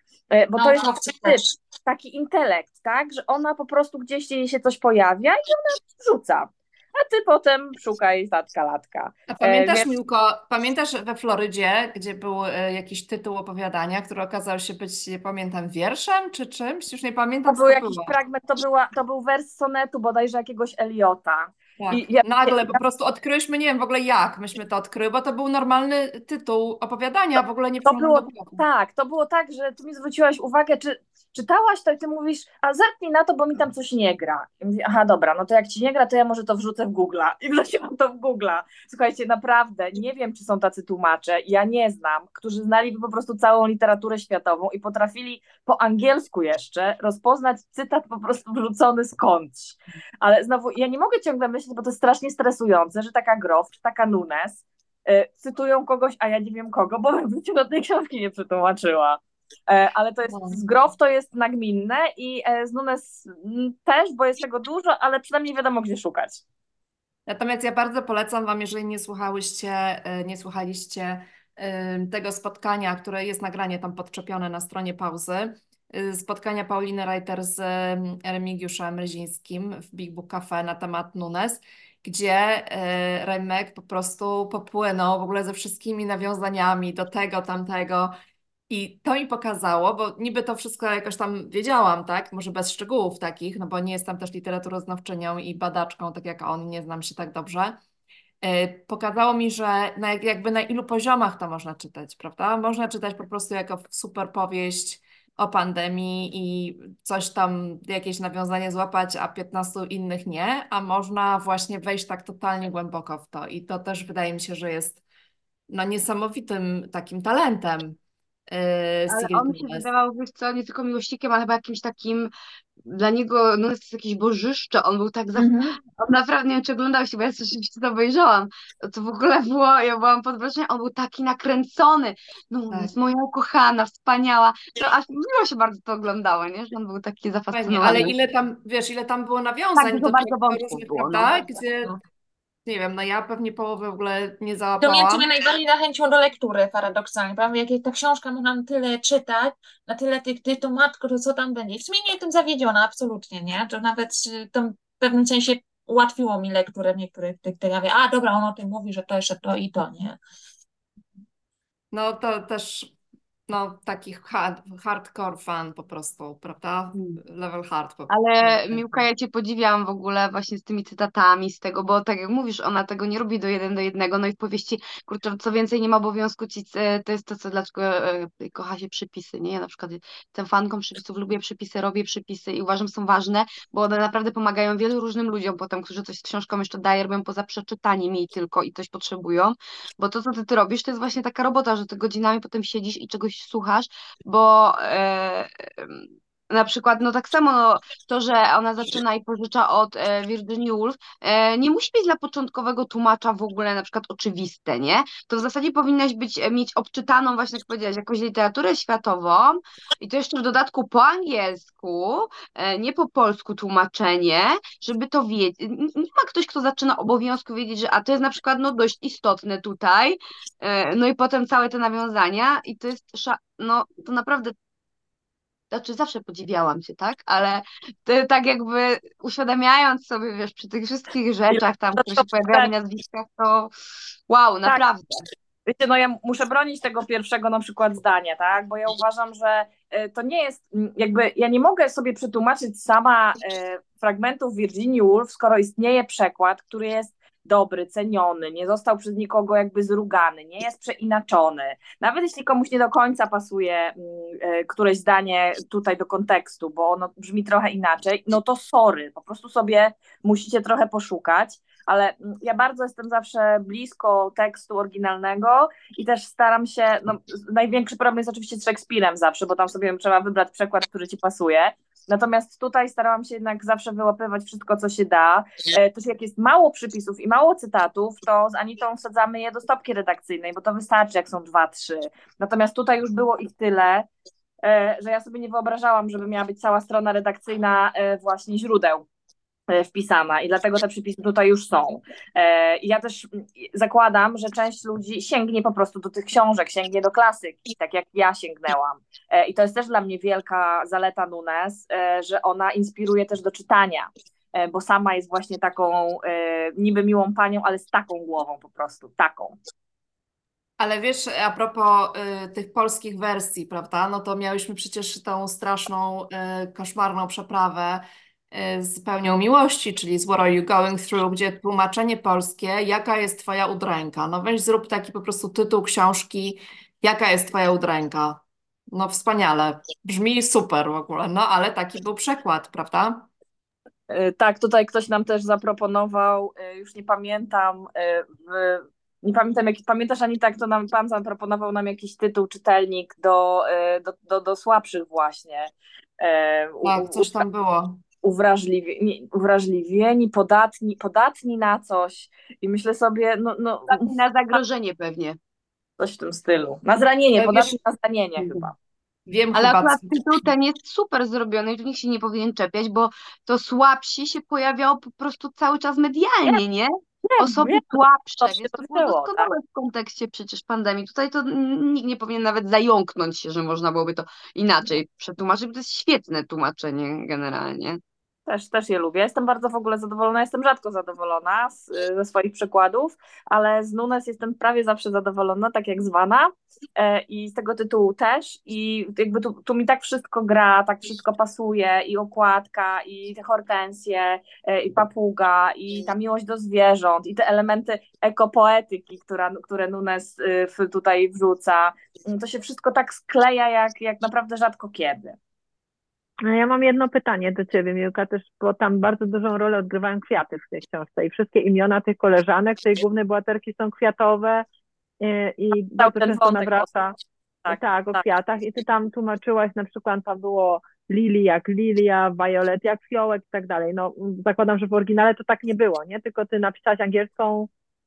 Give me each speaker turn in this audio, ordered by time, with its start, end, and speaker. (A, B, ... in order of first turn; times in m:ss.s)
0:00.3-0:09.8 A
0:00.5-0:01.6 B
0:09.3-0:18.1 C
0:17.4-0:22.8 A
0:21.8-0:28.6 C
0:27.8-1:06.4 A
1:00.3-1:00.6 C
1:07.3-1:28.1 C
1:28.7-1:37.8 C
1:38.4-1:55.0 C
1:55.7-1:58.0 C
1:58.5-1:59.9 C
1:59.1-2:02.3 D
2:02.8-2:18.1 D
2:17.5-2:21.9 C
2:19.8-2:21.3 D
2:22.6-2:25.3 C
2:24.8-2:40.2 B
2:41.9-2:42.9 C
2:43.5-2:49.0 C
2:48.1-3:44.5 D
3:45.7-3:53.7 D
3:51.5-3:52.7 A
3:54.3-3:55.2 D
3:55.7-4:44.1 A
4:44.6-4:49.0 A
4:49.7-5:09.6 A
5:10.8-5:33.3 C
5:34.1-5:47.4 A
5:46.8-5:48.0 C
5:48.2-5:54.1 A
5:53.9-5:55.4 D
5:56.0-5:58.7 A
5:57.4-5:57.8 C
5:58.4-5:58.7 C
5:59.3-6:00.4 C
5:59.5-6:18.0 D
6:07.2-6:09.5 A
6:18.5-6:45.4 A
6:46.5-6:54.6 E
6:55.2-6:57.1 E
6:56.0-6:56.9 A
6:57.6-6:58.2 A
6:57.7-7:07.7 E